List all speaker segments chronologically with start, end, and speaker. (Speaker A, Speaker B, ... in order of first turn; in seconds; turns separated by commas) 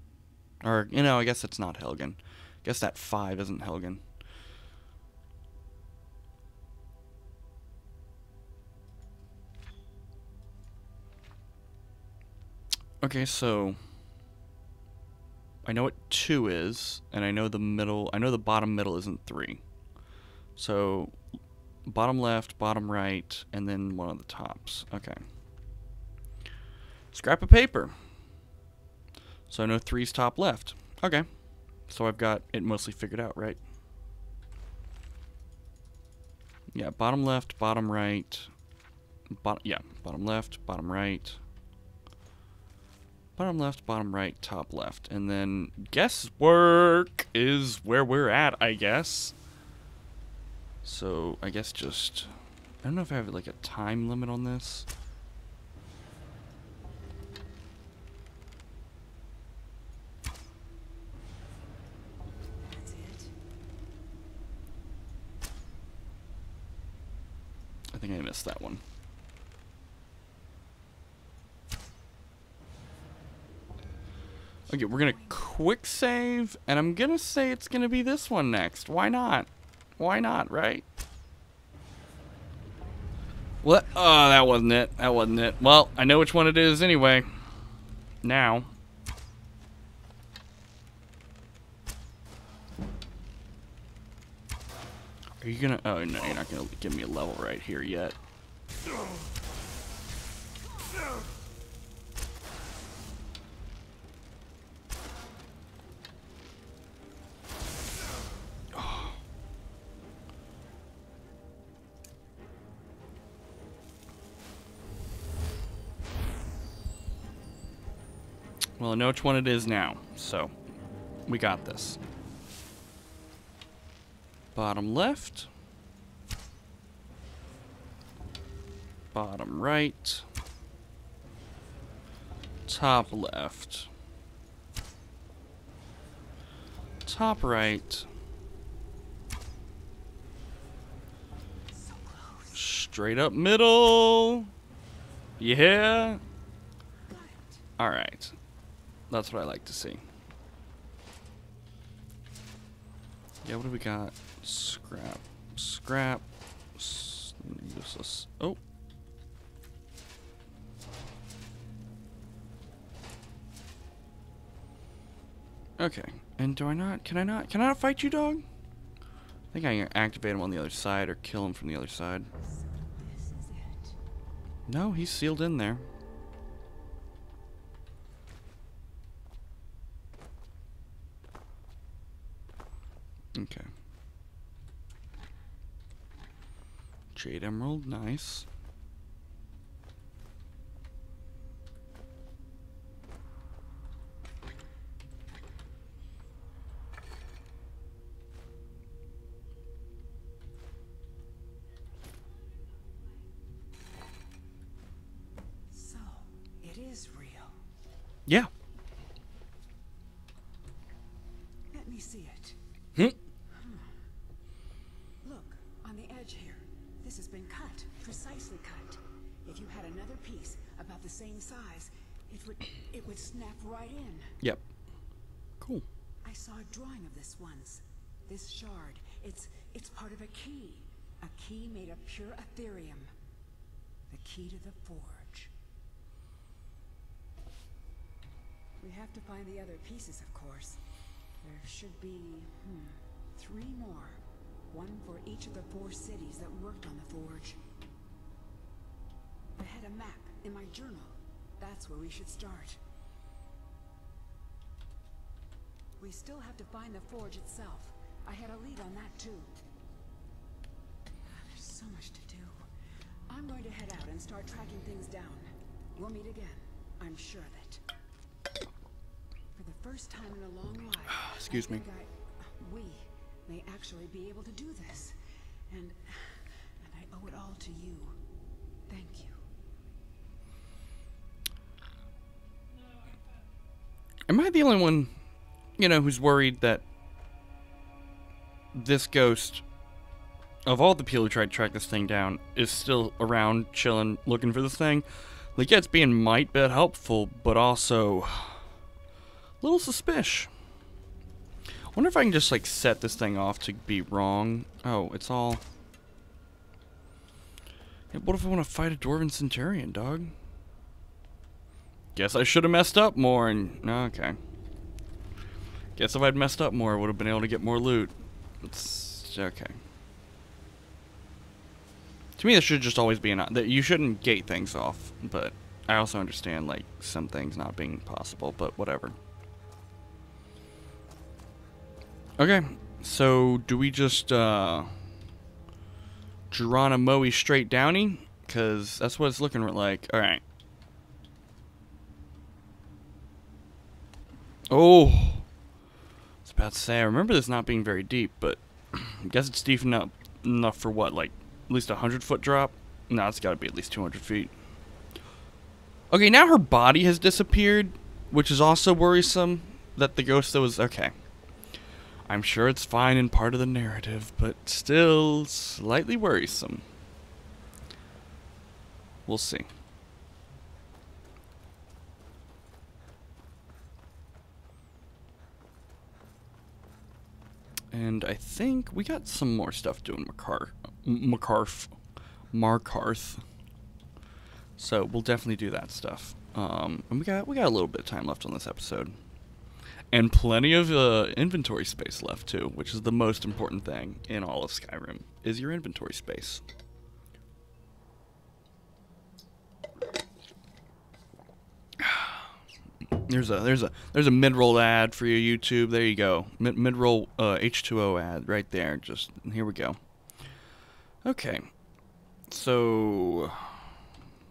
Speaker A: 0.6-4.0, Speaker A: 13.0-13.8, Speaker A: 15.6-19.6, Speaker A: 20.6-21.1, Speaker A: 21.9-25.2, Speaker A: 27.1-27.9, Speaker A: 29.5-31.3, Speaker A: 31.9-33.6, Speaker A: 36.7-38.5, Speaker A: 39.3-41.4, Speaker A: 43.4-49.3, Speaker A: 50.8-52.3, Speaker A: 52.8-54.9, Speaker B: 62.6-63.4, Speaker A: 67.9-68.8, Speaker A: 74.7-80.8, Speaker B: 74.7-75.4, Speaker A: 83.6-87.3, Speaker A: 88.2-88.7, Speaker A: 95.4-98.2, Speaker A: 108.7-109.1, Speaker A: 118.8-120.5, Speaker A: 121.3-122.0, Speaker A: 124.5-125.5, Speaker A: 129.1-130.3, Speaker A: 132.7-133.9, Speaker A: 137.1-138.1, Speaker B: 141.7-142.6, Speaker A: 142.5-144.5, Speaker A: 145.4-146.2, Speaker B: 147.1-147.7, Speaker A: 147.8-148.4, Speaker A: 149.1-150.0, Speaker A: 153.4-158.6, Speaker A: 165.8-168.4, Speaker A: 169.5-172.3, Speaker B: 172.4-174.0, Speaker A: 174.7-175.9, Speaker A: 183.3-183.7, Speaker A: 187.1-188.5, Speaker B: 205.7-207.6, Speaker B: 211.7-212.6, Speaker B: 213.5-214.0, Speaker B: 215.2-224.4, Speaker A: 225.6-225.9, Speaker B: 226.2-233.1, Speaker B: 234.1-235.5, Speaker B: 238.8-240.8, Speaker B: 241.4-247.6, Speaker B: 249.6-252.8, Speaker B: 256.0-259.6, Speaker B: 261.3-262.6, Speaker B: 263.3-267.8, Speaker B: 269.6-275.2, Speaker A: 271.2-271.8, Speaker B: 275.7-278.2, Speaker B: 278.9-279.4, Speaker A: 284.3-285.1, Speaker A: 285.8-286.8, Speaker A: 288.7-289.6, Speaker A: 290.7-298.7, Speaker A: 299.6-300.5, Speaker A: 301.9-305.6, Speaker A: 308.1-310.3, Speaker A: 312.1-314.4, Speaker A: 315.9-319.8, Speaker A: 322.4-329.2, Speaker A: 332.4-335.0, Speaker A: 336.5-340.4, Speaker A: 344.7-345.5, Speaker A: 346.4-354.5, Speaker A: 356.1-361.1, Speaker A: 362.3-366.8, Speaker A: 369.3-369.7, Speaker A: 377.9-381.9, Speaker A: 382.5-383.4, Speaker A: 384.8-389.2, Speaker A: 390.1-396.6, Speaker A: 402.0-402.5, Speaker A: 403.1-410.0, Speaker A: 411.2-411.7, Speaker A: 412.5-413.8